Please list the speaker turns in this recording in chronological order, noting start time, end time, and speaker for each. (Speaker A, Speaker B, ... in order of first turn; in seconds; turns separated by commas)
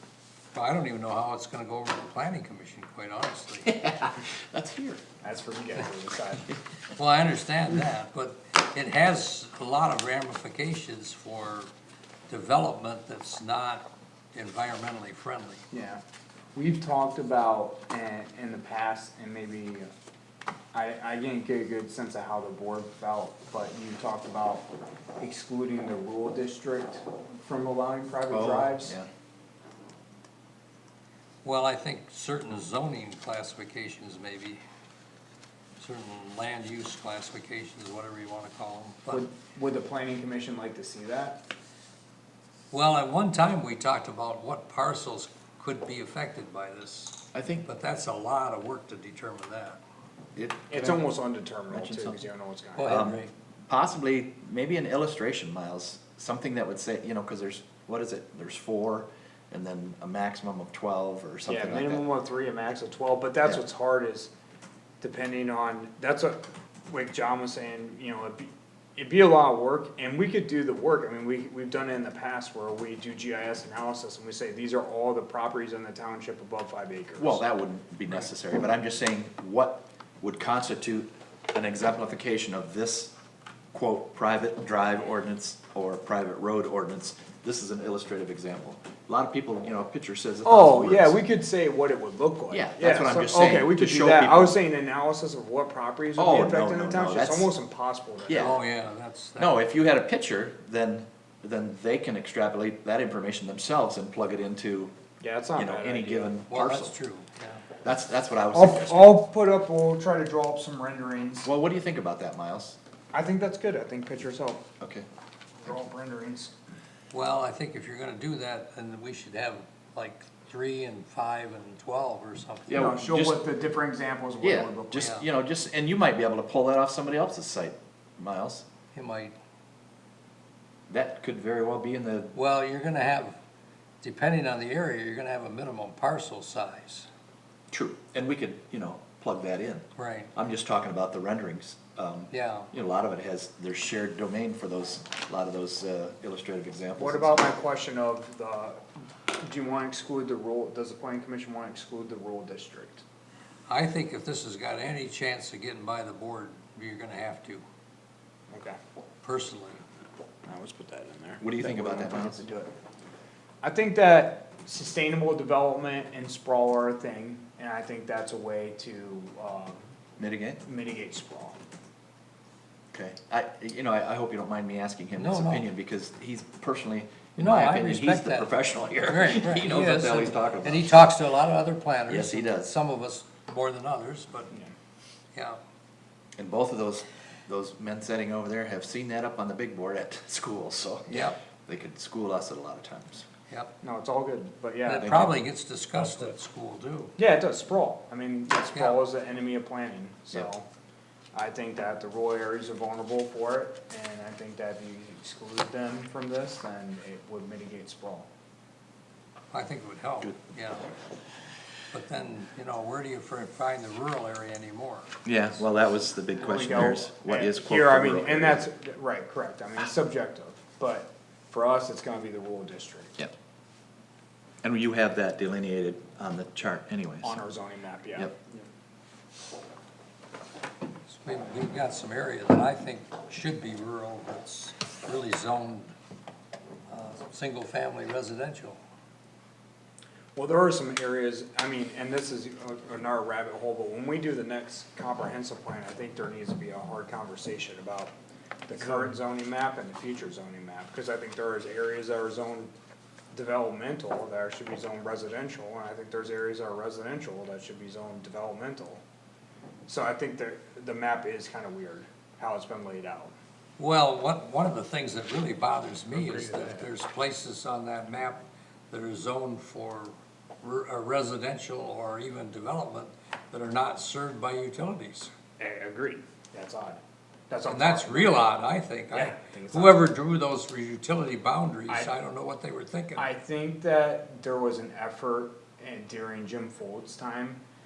Speaker A: 0.5-3.7, Speaker B: 3.6-5.0, Speaker C: 5.2-6.5, Speaker A: 7.0-11.7, Speaker A: 12.3-15.7, Speaker C: 15.7-16.0, Speaker C: 16.6-19.9, Speaker C: 20.7-29.0, Speaker B: 28.3-29.1, Speaker A: 31.4-34.6, Speaker A: 35.8-39.3, Speaker C: 39.1-41.4, Speaker A: 42.7-49.8, Speaker B: 47.3-47.7, Speaker B: 50.4-51.1, Speaker C: 50.7-53.0, Speaker B: 51.7-52.2, Speaker A: 52.8-53.3, Speaker B: 52.9-62.0, Speaker C: 61.5-64.3, Speaker C: 65.0-77.5, Speaker B: 77.2-83.1, Speaker B: 83.7-91.2, Speaker C: 90.4-98.6, Speaker B: 92.5-94.6, Speaker B: 96.2-97.5, Speaker B: 98.3-98.6, Speaker A: 98.3-99.6, Speaker B: 99.4-104.9, Speaker C: 105.2-106.4, Speaker B: 105.6-106.9, Speaker A: 106.5-107.7, Speaker B: 107.8-109.2, Speaker C: 108.5-111.5, Speaker B: 111.4-112.8, Speaker C: 113.1-114.6, Speaker B: 114.8-115.1, Speaker C: 115.6-116.5, Speaker A: 117.1-123.0, Speaker B: 122.7-123.4, Speaker C: 122.7-125.1, Speaker B: 124.4-128.7, Speaker A: 125.0-125.3, Speaker A: 128.9-129.3, Speaker B: 130.9-132.3, Speaker A: 132.3-133.4, Speaker A: 134.0-137.1, Speaker B: 137.7-147.4, Speaker A: 140.0-140.3, Speaker A: 142.3-142.7, Speaker C: 146.9-148.8, Speaker C: 149.4-153.0, Speaker A: 153.7-157.6, Speaker C: 158.5-158.8, Speaker A: 159.2-159.8, Speaker C: 160.5-162.7, Speaker B: 161.4-162.4, Speaker C: 163.6-169.8, Speaker B: 170.2-170.6, Speaker C: 170.6-171.6, Speaker B: 172.9-181.1, Speaker A: 175.2-175.7, Speaker A: 177.4-178.5, Speaker A: 179.1-184.5, Speaker B: 182.1-182.7, Speaker B: 186.4-193.3, Speaker A: 191.1-191.4, Speaker A: 193.5-193.7, Speaker C: 193.8-195.2, Speaker A: 194.9-197.2, Speaker B: 195.0-195.4, Speaker C: 197.2-200.7, Speaker A: 198.7-199.0, Speaker C: 201.3-208.3, Speaker A: 209.5-210.9, Speaker A: 211.9-215.2, Speaker B: 215.2-218.6, Speaker C: 216.3-223.2, Speaker B: 224.6-227.4, Speaker C: 227.2-228.7, Speaker A: 231.1-235.9, Speaker A: 236.9-238.8, Speaker C: 240.3-248.1, Speaker C: 248.7-252.7, Speaker C: 253.3-259.0, Speaker C: 259.9-263.3, Speaker A: 263.8-275.3, Speaker C: 266.1-266.9, Speaker C: 275.6-278.5, Speaker A: 277.7-283.3, Speaker C: 279.1-280.1, Speaker C: 283.2-287.6